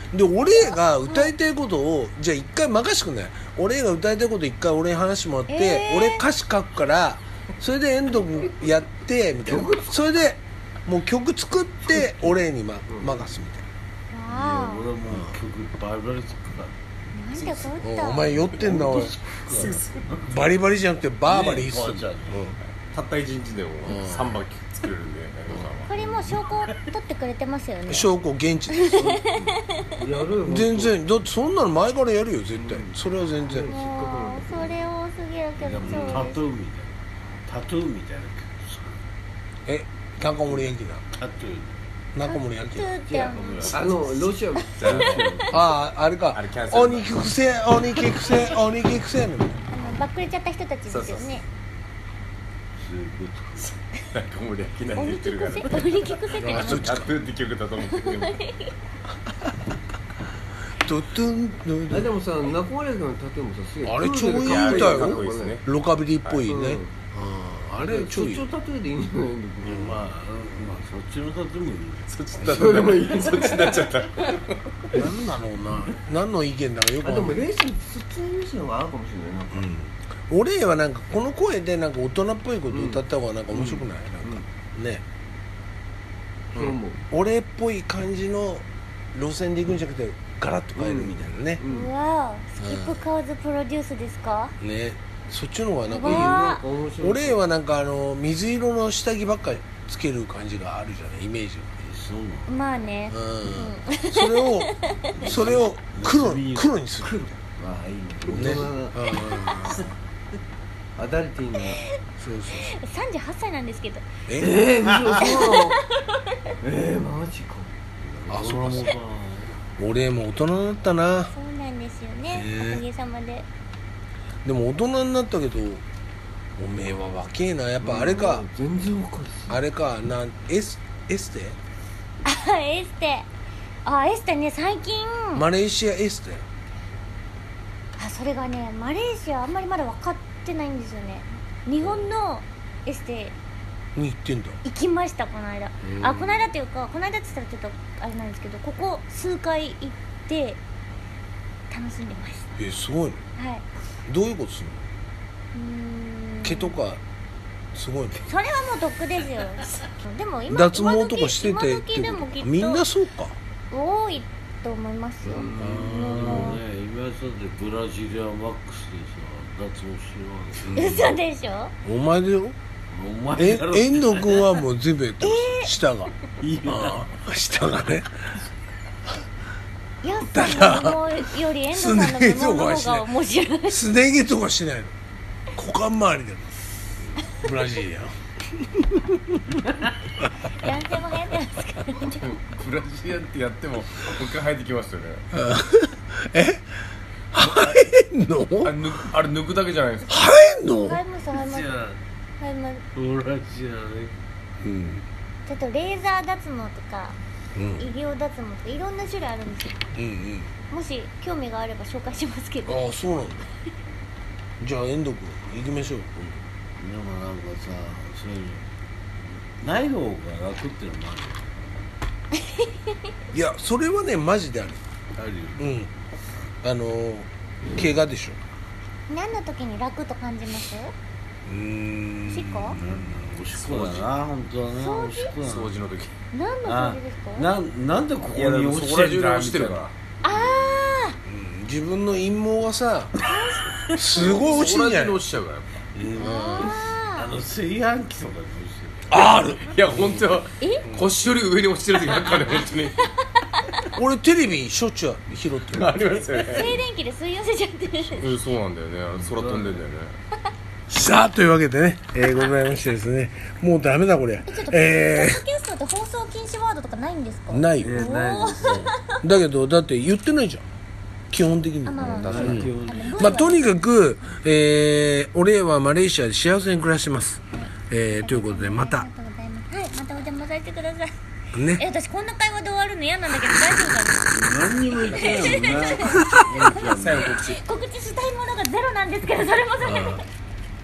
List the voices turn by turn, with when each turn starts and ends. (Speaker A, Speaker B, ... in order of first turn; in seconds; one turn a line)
Speaker A: 0.1-13.6
Speaker B: 0.5-1.3
Speaker B: 5.5-6.2
Speaker C: 9.4-9.9
Speaker C: 12.9-13.2
Speaker B: 14.1-14.9
Speaker D: 14.3-16.7
Speaker A: 15.1-15.4
Speaker B: 17.1-18.4
Speaker E: 17.3-17.7
Speaker A: 17.7-19.2
Speaker D: 18.5-20.3
Speaker E: 19.4-20.2
Speaker A: 20.2-22.6
Speaker D: 21.2-22.5
Speaker E: 22.9-25.9
Speaker A: 23.8-24.4
Speaker B: 25.9-28.1
Speaker D: 25.9-26.7
Speaker A: 27.9-29.1
Speaker B: 28.7-29.9
Speaker C: 28.9-29.2
Speaker C: 29.9-30.9
Speaker A: 30.4-33.7
Speaker C: 32.5-32.9
Speaker C: 33.5-34.8
Speaker B: 33.7-36.4
Speaker D: 35.6-39.0
Speaker A: 35.8-36.2
Speaker A: 39.7-41.0
Speaker D: 41.1-41.9
Speaker A: 42.1-42.9
Speaker B: 42.2-45.4
Speaker C: 43.1-45.2
Speaker D: 43.3-44.0
Speaker E: 44.7-45.4
Speaker D: 45.0-45.6
Speaker A: 45.5-49.6
Speaker E: 46.3-47.2
Speaker B: 49.7-51.4
Speaker E: 50.9-51.4
Speaker D: 52.8-53.8
Speaker E: 54.1-58.4
Speaker B: 54.9-56.9
Speaker A: 56.3-57.1
Speaker B: 57.9-58.7
Speaker A: 60.8-62.1
Speaker C: 61.9-65.6
Speaker A: 63.8-68.5
Speaker E: 64.4-65.6
Speaker C: 66.2-66.9
Speaker C: 67.8-69.9
Speaker A: 69.6-70.0
Speaker D: 69.8-72.2
Speaker E: 72.1-74.8
Speaker C: 72.4-73.9
Speaker A: 74.9-77.4
Speaker C: 77.0-79.7
Speaker A: 79.5-85.0
Speaker C: 82.7-83.0
Speaker C: 83.5-84.4
Speaker C: 86.5-87.0
Speaker A: 86.5-91.6
Speaker C: 90.8-91.9
Speaker B: 91.7-94.5
Speaker A: 92.6-93.0
Speaker A: 94.6-96.5
Speaker B: 95.8-96.6
Speaker C: 96.0-97.4
Speaker A: 97.0-101.7
Speaker D: 101.8-102.6
Speaker B: 102.5-105.3
Speaker A: 103.1-107.3
Speaker D: 105.2-106.7
Speaker C: 107.0-109.0
Speaker A: 108.3-109.9
Speaker C: 111.0-111.8
Speaker A: 112.2-112.7
Speaker B: 112.5-114.1
Speaker A: 114.3-114.6
Speaker C: 114.4-115.8
Speaker D: 114.9-115.3
Speaker B: 115.1-116.3
Speaker C: 116.6-117.7
Speaker D: 118.0-119.5
Speaker A: 118.3-118.9
Speaker A: 119.8-121.3
Speaker B: 121.3-123.5
Speaker A: 122.3-122.8
Speaker A: 124.4-125.8
Speaker A: 126.6-128.4
Speaker C: 127.8-129.6
Speaker A: 129.5-131.6
Speaker B: 132.2-133.3
Speaker B: 133.8-135.4
Speaker A: 135.3-136.4
Speaker B: 138.0-143.3
Speaker A: 141.8-142.1
Speaker A: 143.9-144.6
Speaker B: 144.6-150.6
Speaker A: 145.8-146.5
Speaker B: 151.7-152.5
Speaker A: 152.6-153.2
Speaker B: 153.3-153.6
Speaker A: 154.1-154.8
Speaker B: 155.5-156.8
Speaker A: 156.4-157.0
Speaker A: 157.7-158.3
Speaker B: 158.2-162.8
Speaker A: 160.5-163.4
Speaker B: 163.7-166.6
Speaker A: 165.3-166.6
Speaker C: 165.3-166.3
Speaker D: 165.6-171.1
Speaker A: 170.6-171.1
Speaker B: 170.8-171.7
Speaker A: 171.8-172.6
Speaker D: 172.9-174.5
Speaker A: 173.3-176.1
Speaker B: 175.2-175.7
Speaker E: 176.4-176.9
Speaker D: 176.5-176.8
Speaker A: 176.6-178.3
Speaker B: 180.0-183.8
Speaker A: 180.2-181.0
Speaker A: 181.7-183.1
Speaker A: 183.7-184.9
Speaker A: 185.5-186.5
Speaker A: 187.4-189.3
Speaker B: 190.4-192.3
Speaker E: 192.2-195.2
Speaker A: 195.3-196.7
Speaker A: 197.3-199.0
Speaker E: 198.6-200.2
Speaker A: 200.1-201.0
Speaker B: 200.8-201.7
Speaker D: 201.3-202.0
Speaker B: 202.4-202.8
Speaker D: 202.9-204.1
Speaker A: 204.6-205.1
Speaker B: 205.4-207.2
Speaker A: 207.5-207.9
Speaker B: 207.8-209.8
Speaker A: 209.9-210.5
Speaker B: 210.7-212.9
Speaker A: 212.7-213.5
Speaker A: 214.6-216.4
Speaker D: 216.8-218.6
Speaker D: 219.6-221.9
Speaker A: 223.3-224.8
Speaker D: 225.1-225.7
Speaker A: 225.6-225.9
Speaker A: 226.6-228.4
Speaker B: 229.1-230.9
Speaker A: 231.4-233.3
Speaker B: 232.3-232.8
Speaker D: 232.7-235.7
Speaker E: 233.5-234.1
Speaker B: 234.7-235.3
Speaker E: 235.4-236.1
Speaker B: 236.3-237.5
Speaker D: 236.6-239.9
Speaker E: 238.3-239.9
Speaker B: 240.2-241.2
Speaker A: 241.2-243.2
Speaker B: 243.2-244.7
Speaker A: 243.9-245.2
Speaker E: 244.2-245.9
Speaker D: 245.9-249.6
Speaker A: 246.2-246.8
Speaker B: 246.2-247.3
Speaker A: 249.1-250.0
Speaker E: 249.7-252.9
Speaker B: 250.6-250.9
Speaker A: 250.8-251.1
Speaker B: 253.6-253.8
Speaker A: 253.9-256.0
Speaker E: 255.7-256.8
Speaker B: 256.4-258.3
Speaker E: 258.2-260.1
Speaker D: 259.4-259.7
Speaker A: 260.9-265.4
Speaker B: 264.5-268.9
Speaker A: 267.5-268.1
Speaker D: 267.8-268.9
Speaker A: 269.2-270.6
Speaker A: 271.3-279.1
Speaker B: 271.8-273.6
Speaker D: 272.2-273.1
Speaker B: 277.5-281.1
Speaker A: 281.5-281.8
Speaker B: 281.7-284.3
Speaker D: 284.3-287.6
Speaker B: 284.9-290.2
Speaker E: 287.0-287.5
Speaker A: 289.8-290.2